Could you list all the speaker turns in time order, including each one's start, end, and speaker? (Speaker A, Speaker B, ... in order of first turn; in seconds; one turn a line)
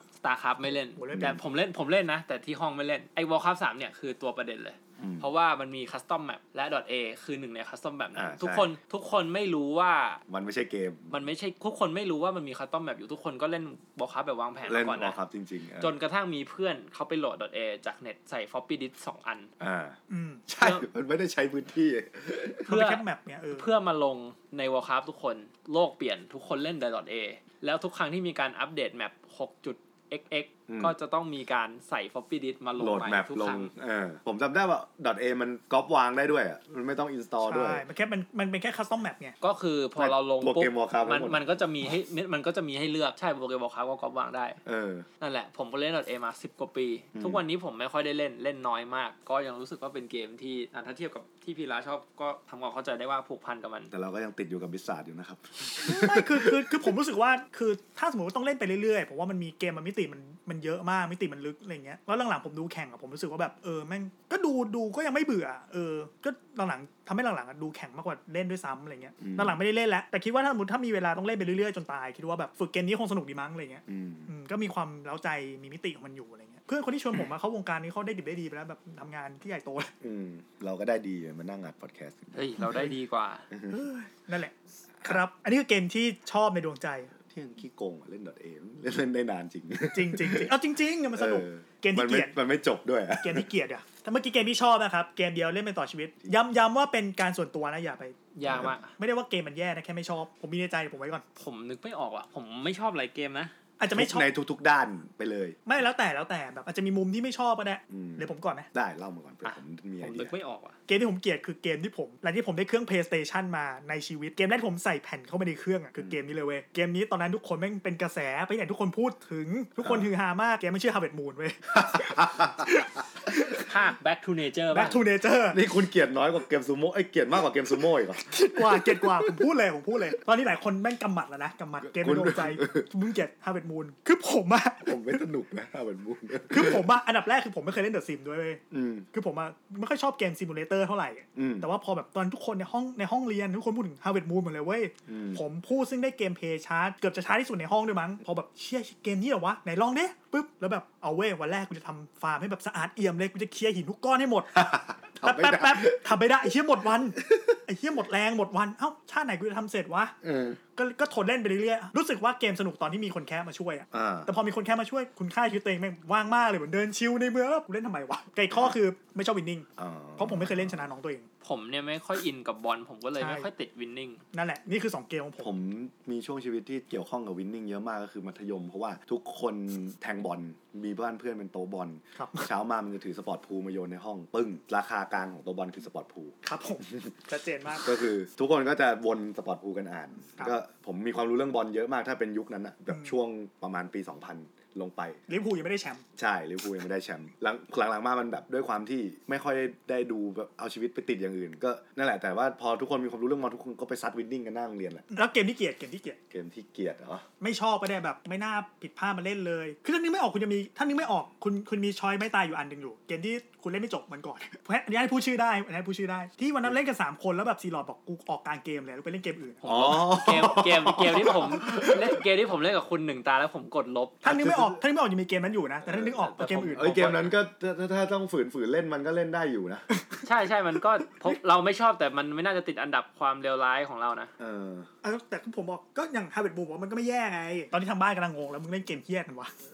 Speaker A: 0.2-10.2
Speaker B: 1.0-1.4
Speaker C: 1.1-1.4
Speaker C: 5.0-5.3
Speaker C: 8.2-8.7
Speaker C: 10.3-11.2
Speaker A: 11.1-15.2
Speaker C: 14.7-15.9
Speaker A: 15.8-19.5
Speaker C: 19.6-22.7
Speaker B: 20.1-20.4
Speaker A: 20.6-20.9
Speaker B: 22.6-23.7
Speaker A: 22.7-23.0
Speaker A: 23.5-33.7
Speaker C: 30.7-30.9
Speaker C: 32.8-37.9
Speaker B: 37.4-39.4
Speaker A: 39.4-44.6
Speaker C: 40.0-41.4
Speaker C: 44.7-45.1
Speaker A: 45.2-53.9
Speaker C: 47.1-47.4
Speaker C: 53.9-56.7
Speaker B: 55.8-79.9
Speaker C: 69.2-69.6
Speaker C: 73.9-74.3
Speaker C: 80.0-82.9
Speaker A: 82.3-83.5
Speaker C: 83.5-83.8
Speaker B: 83.7-87.1
Speaker C: 87.2-90.5
Speaker B: 89.9-92.3
Speaker C: 91.2-93.5
Speaker B: 93.2-101.2
Speaker A: 98.3-98.9
Speaker C: 98.5-98.7
Speaker A: 101.4-103.5
Speaker B: 103.8-104.3
Speaker C: 103.9-105.6
Speaker B: 105.7-108.7
Speaker C: 107.9-110.3
Speaker A: 109.4-110.8
Speaker B: 110.9-123.7
Speaker C: 121.7-122.8
Speaker A: 123.6-125.0
Speaker B: 124.7-125.6
Speaker C: 125.5-129.4
Speaker B: 128.3-135.2
Speaker C: 131.8-132.9
Speaker C: 134.8-136.9
Speaker B: 136.5-138.6
Speaker C: 138.7-139.1
Speaker B: 139.1-154.7
Speaker C: 141.4-141.7
Speaker C: 145.1-145.4
Speaker C: 154.6-156.2
Speaker B: 155.2-160.2
Speaker C: 157.2-157.6
Speaker C: 160.2-160.6
Speaker B: 160.8-171.3
Speaker C: 163.9-164.3
Speaker C: 169.8-170.9
Speaker A: 171.4-174.2
Speaker B: 173.2-173.5
Speaker B: 174.3-175.5
Speaker C: 175.4-186.4
Speaker B: 182.2-182.5
Speaker B: 186.4-187.9
Speaker C: 187.8-195.2
Speaker B: 195.3-196.1
Speaker C: 196.2-205.1
Speaker B: 205.1-206.2
Speaker C: 206.3-207.2
Speaker B: 207.4-219.7
Speaker A: 219.6-224.2
Speaker C: 219.7-222.2
Speaker B: 224.2-227.0
Speaker C: 224.3-224.8
Speaker C: 225.9-226.1
Speaker A: 226.2-227.3
Speaker C: 226.8-229.8
Speaker B: 229.9-230.2
Speaker A: 230.2-234.3
Speaker C: 234.4-234.9
Speaker B: 235.0-239.5